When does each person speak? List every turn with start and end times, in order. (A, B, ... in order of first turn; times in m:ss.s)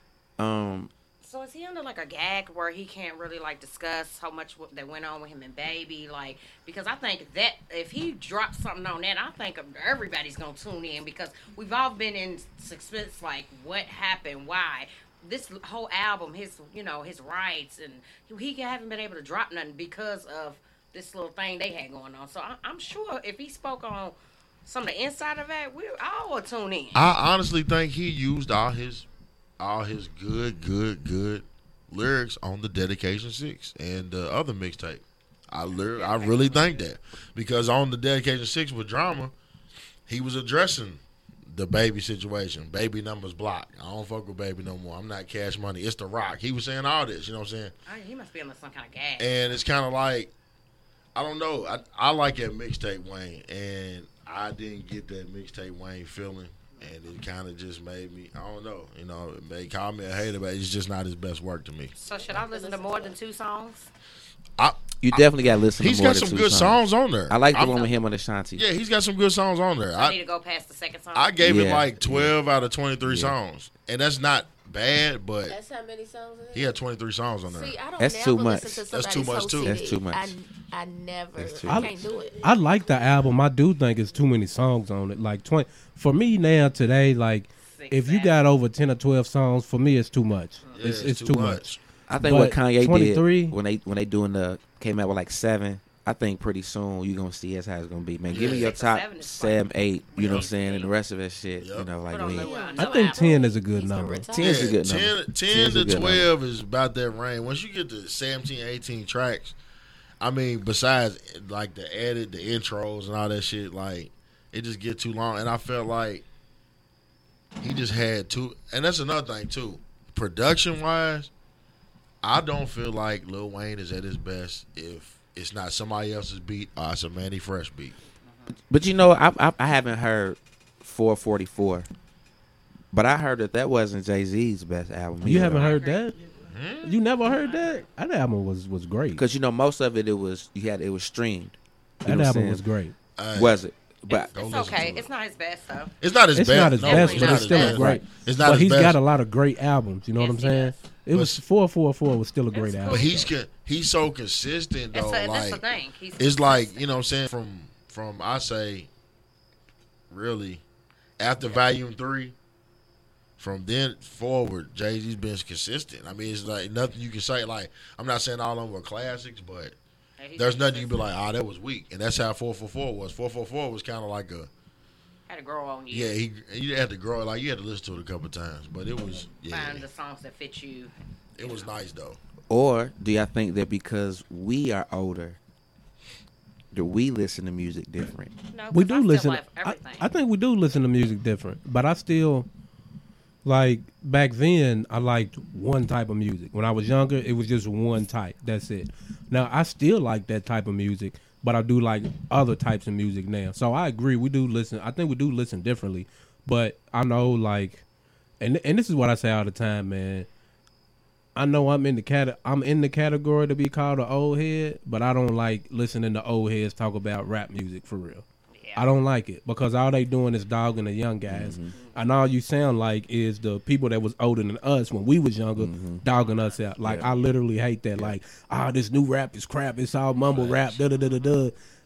0:00.4-0:00.9 A
0:01.2-0:27.1 B
0:26.9-0:29.0 C
0:29.6-0:39.3 C
0:35.9-0:36.8 B
0:40.1-0:47.7 C
0:47.8-0:49.6 B
0:49.2-0:50.3 C
0:51.1-1:01.9 C
1:02.0-1:03.9 B
1:02.1-1:03.2 D
1:04.6-1:05.2 C
1:05.0-1:08.6 A
1:05.8-1:07.8 C
1:08.5-1:10.2 C
1:10.0-1:11.3 B
1:11.1-1:15.5 C
1:11.4-1:12.3 A
1:13.0-1:13.4 A
1:15.4-1:16.8 D
1:16.5-1:17.8 C
1:17.4-1:22.4 D
1:18.0-1:18.9 A
1:18.9-1:19.8 C
1:19.6-1:20.3 A
1:21.4-1:22.0 A
1:21.7-1:31.7 E
1:27.7-1:28.4 B
1:30.6-1:31.0 B
1:30.7-1:31.8 C
1:32.1-1:42.5 A
1:32.2-1:33.6 E
1:38.3-1:38.7 C
1:38.3-1:40.9 B
1:40.2-1:40.5 C
1:41.6-1:41.9 C
1:42.0-1:43.4 B
1:42.3-1:44.7 D
1:42.8-1:44.2 E
1:44.3-1:46.3 A
1:44.4-1:49.6 C
1:50.2-1:56.2 C
1:57.6-2:01.3 C
2:02.2-2:07.9 C
2:08.3-2:08.5 B
2:08.7-2:11.9 A
2:12.9-2:15.7 A
2:15.2-2:16.2 E
2:15.4-2:16.1 B
2:16.5-2:17.0 C
2:16.8-2:19.2 E
2:17.2-2:17.8 B
2:19.2-2:22.6 A
2:22.0-2:22.9 E
2:23.2-2:23.6 C
2:23.3-2:24.3 A
2:24.1-2:25.9 B
2:24.3-2:25.1 C
2:26.0-2:29.0 C
2:26.3-2:33.3 E
2:26.8-2:28.1 B
2:30.2-2:30.9 B
2:31.1-2:31.4 C
2:32.5-2:33.3 B
2:32.9-2:35.6 C
2:34.9-2:36.8 B
2:36.2-2:38.9 C
2:40.1-2:40.6 C
2:41.2-2:42.3 C
2:43.4-2:49.8 C
2:50.2-2:51.1 B
2:50.4-2:54.5 C
2:55.3-2:56.2 B
2:55.9-2:59.8 C
2:59.5-3:01.7 B
3:01.3-3:02.2 C
3:02.5-3:05.4 A
3:06.7-3:08.3 A
3:08.5-3:10.1 B
3:08.7-3:12.5 E
3:13.4-3:27.8 E
3:28.4-3:30.3 E
3:31.4-3:38.2 E
3:38.5-3:38.8 B
3:38.7-3:51.5 E
3:41.3-3:41.7 A
3:45.6-3:46.0 A
3:46.2-3:46.6 B
3:46.8-3:47.1 A
3:50.3-3:50.6 A